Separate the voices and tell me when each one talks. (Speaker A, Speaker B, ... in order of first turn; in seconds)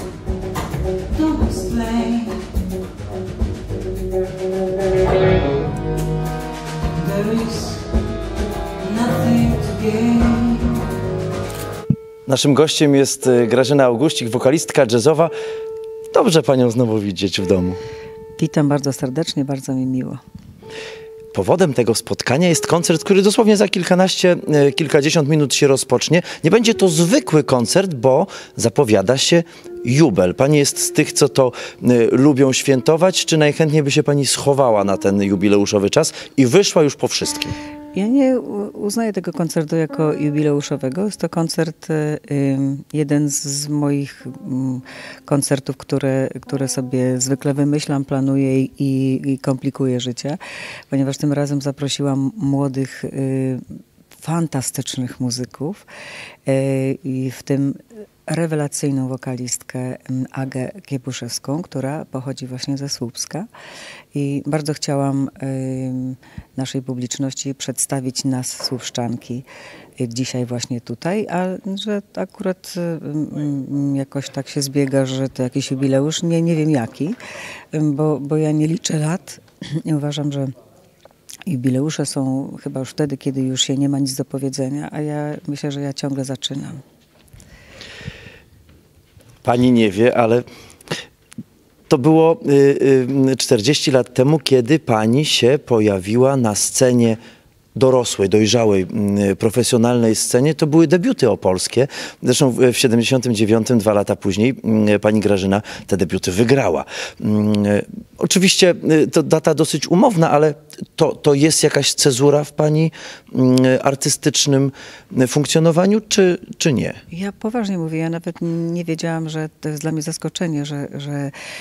Speaker A: 1.2-2.4, 7.0-7.8, 8.8-10.8, 18.4-20.2, 37.9-50.4, 50.9-53.6, 54.2-55.8, 56.5-63.5, 64.1-69.4, 70.0-77.2, 77.7-80.5, 81.5-86.8, 117.1-121.3
Speaker B: 12.2-15.3, 16.1-17.8, 21.3-37.5, 89.4-90.4, 91.9-97.2, 97.8-117.0